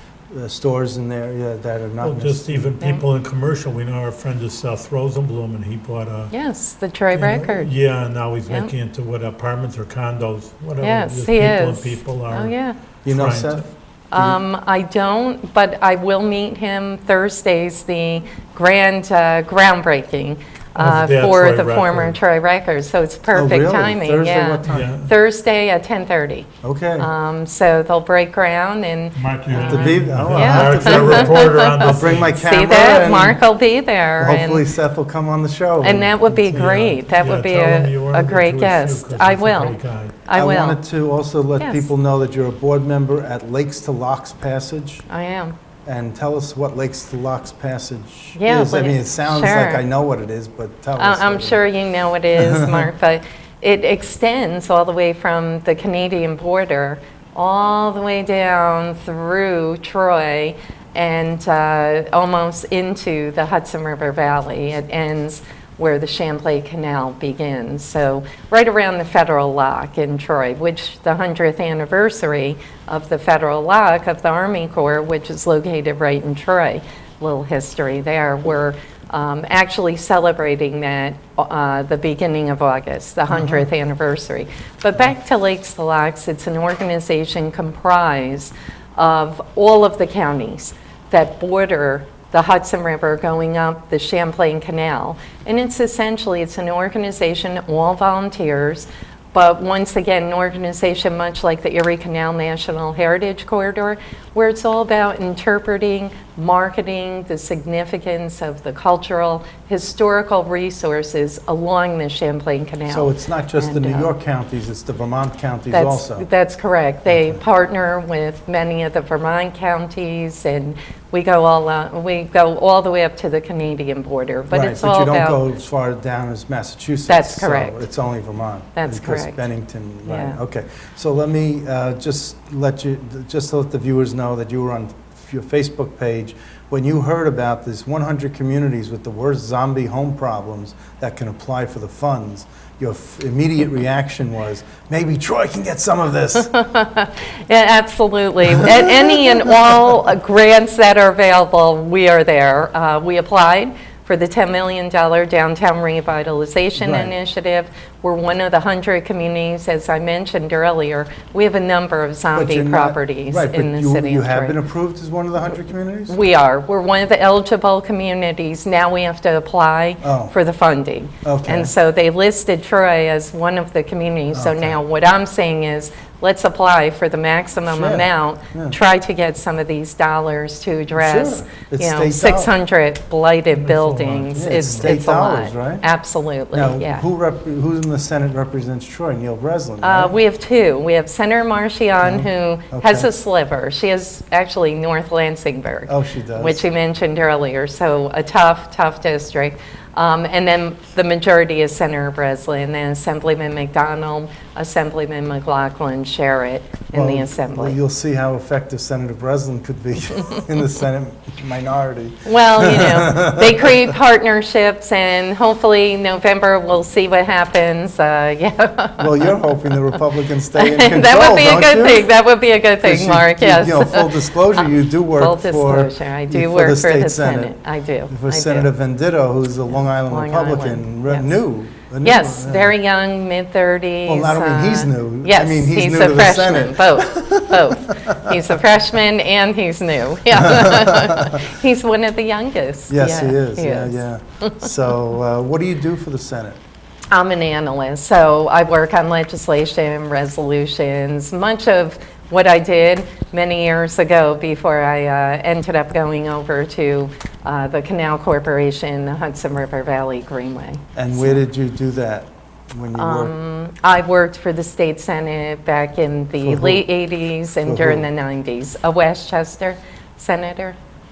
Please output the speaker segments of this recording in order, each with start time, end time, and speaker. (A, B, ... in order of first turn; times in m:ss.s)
0:00.3-0:02.7 A
0:02.0-0:06.3 B
0:06.3-0:07.7 C
0:07.1-0:13.6 B
0:10.8-0:12.8 C
0:13.0-0:14.4 A
0:14.1-0:34.6 C
0:20.8-0:22.2 B
0:23.3-0:25.0 A
0:24.7-0:25.1 B
0:26.6-0:27.1 A
0:29.2-0:32.4 B
0:29.5-0:33.4 A
0:34.2-0:36.8 A
0:35.8-0:40.8 C
0:36.5-0:40.2 B
0:40.3-0:45.0 A
0:41.6-0:41.9 C
0:45.1-0:45.5 C
0:45.8-0:51.7 A
0:48.4-0:49.8 C
0:51.0-1:54.1 C
0:52.4-0:52.9 A
1:23.3-1:23.7 A
1:52.9-1:56.3 A
1:55.7-2:05.4 C
1:57.1-1:57.4 A
2:04.5-2:26.5 A
2:07.1-2:07.9 C
2:08.8-2:09.5 C
2:10.1-2:10.4 C
2:26.4-2:44.6 C
2:28.5-2:29.6 A
2:36.8-2:37.1 A
2:42.3-2:46.2 A
2:46.1-3:07.0 C
2:50.0-2:50.3 A
2:51.2-2:51.7 A
2:54.3-2:54.8 A
2:57.7-2:58.8 A
3:01.0-3:02.6 A
3:03.5-3:04.9 B
3:04.3-3:05.8 A
3:06.5-3:10.2 A
3:09.8-3:27.8 C
3:12.0-3:13.1 A
3:15.9-3:16.6 A
3:26.9-3:33.9 A
3:32.2-3:40.0 C
3:39.0-3:42.1 A
3:40.6-3:48.7 C
3:42.8-3:47.6 A
3:48.1-3:52.7 A
3:49.7-3:51.3 C
3:52.0-4:04.7 C
3:54.1-3:58.6 A
4:00.3-4:01.4 A
4:02.9-4:06.6 A
4:07.1-4:21.4 C
4:21.0-4:23.4 A
4:23.0-4:30.8 C
4:26.4-4:26.9 A
4:27.6-4:28.1 A